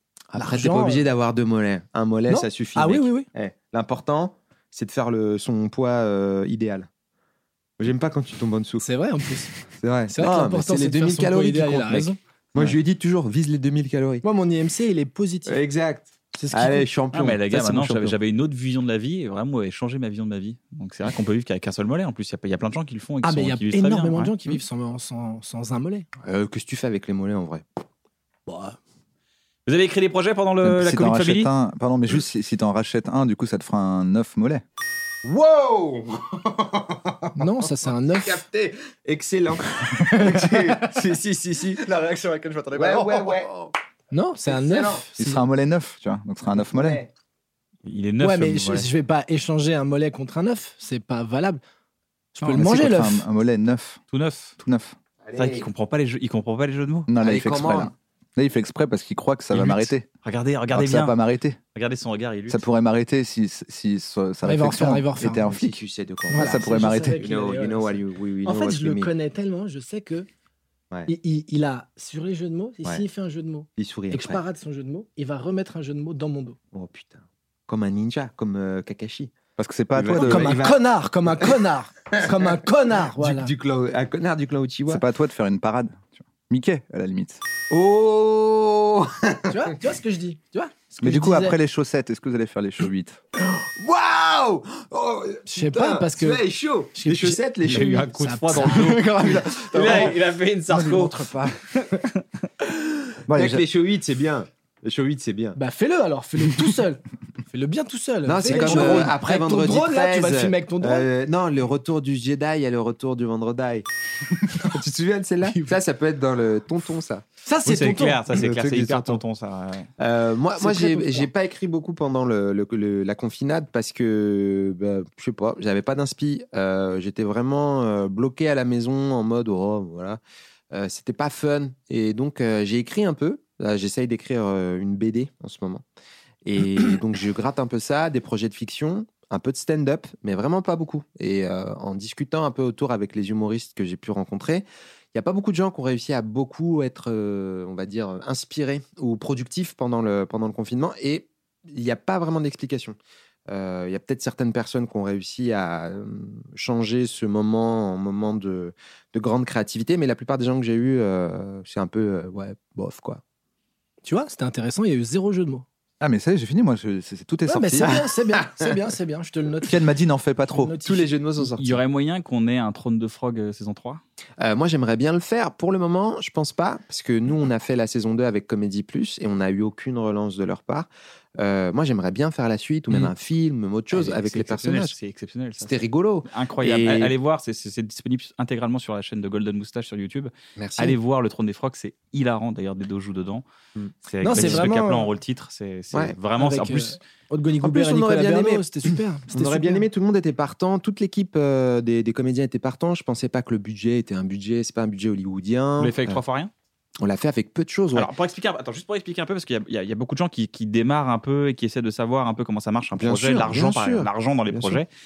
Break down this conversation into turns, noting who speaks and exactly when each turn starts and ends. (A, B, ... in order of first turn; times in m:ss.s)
0:00.3-0:06.9 A
0:00.4-0:01.0 B
0:02.3-0:03.3 B
0:07.8-0:08.8 A
0:08.8-0:09.5 B
0:09.8-0:14.2 A
0:10.1-0:12.2 B
0:14.2-0:15.6 B
0:15.5-0:18.2 A
0:16.4-0:16.9 B
0:17.1-0:24.3 C
0:23.2-0:26.1 B
0:26.2-0:27.7 A
0:28.5-0:28.8 B
0:29.6-0:31.5 C
0:30.6-0:34.6 D
0:35.2-0:41.9 A
0:37.4-0:38.4 B
0:40.1-0:40.5 B
0:41.8-0:43.5 D
0:42.7-0:43.7 A
0:44.1-0:45.4 B
0:44.5-0:45.0 A
0:45.2-0:47.0 D
0:46.6-0:47.1 A
0:47.9-0:48.9 C
0:48.2-0:51.6 B
0:52.4-0:53.3 B
0:52.4-0:54.0 D
0:54.1-0:54.6 C
0:54.6-0:55.0 D
0:55.2-0:55.7 A
0:55.3-0:57.1 C
0:57.1-1:00.1 D
0:57.2-0:57.9 A
0:59.5-1:01.1 C
1:00.7-1:01.6 D
1:01.7-1:02.6 C
1:02.5-1:05.8 D
1:04.4-1:05.5 B
1:05.4-1:09.1 A
1:06.3-1:10.3 B
1:06.3-1:07.2 D
1:11.1-1:16.6 B
1:13.8-1:14.4 A
1:16.7-1:19.4 A
1:19.6-1:20.6 D
1:19.9-1:21.6 A
1:20.1-1:23.5 B
1:22.1-1:22.6 A
1:23.2-1:25.0 A
1:24.9-1:27.4 D
1:27.7-1:29.6 A
1:29.5-1:31.6 B
1:31.0-1:33.2 D
1:33.4-1:38.1 A
1:35.5-1:36.4 B
1:36.9-1:39.0 B
1:37.6-1:41.3 C
1:38.6-1:40.2 D
1:39.7-1:40.1 A
1:40.7-1:41.6 D
1:43.3-1:43.6 D
1:43.3-1:45.6 A
1:45.6-1:51.1 B
1:48.2-1:53.9 A
1:48.4-1:49.1 D
1:54.4-1:57.2 A
1:55.4-1:55.8 B
1:57.4-1:58.2 B
1:57.6-1:59.9 C
1:58.3-1:59.2 A
2:00.0-2:10.2 A
2:00.6-2:01.3 B
2:10.7-2:15.8 A
2:16.4-2:33.0 A
2:33.5-2:43.2 A
2:44.0-2:45.6 B
2:46.0-2:47.9 D
2:47.4-2:49.8 B
2:47.8-2:48.5 A
2:49.6-2:50.7 D
2:50.5-2:51.1 B
2:50.8-2:51.8 A
2:51.4-2:54.0 C
2:54.4-3:04.9 A
3:03.9-3:13.4 C
3:05.6-3:07.1 A
3:10.6-3:11.0 A
3:13.8-3:14.7 A
3:14.0-3:17.0 C
3:14.2-3:15.1 B
3:16.4-3:19.8 B
3:17.6-3:18.6 A
3:19.3-3:26.2 A
3:25.8-3:26.5 C
3:27.0-3:28.1 A
3:27.9-3:34.9 C
3:33.0-3:34.8 A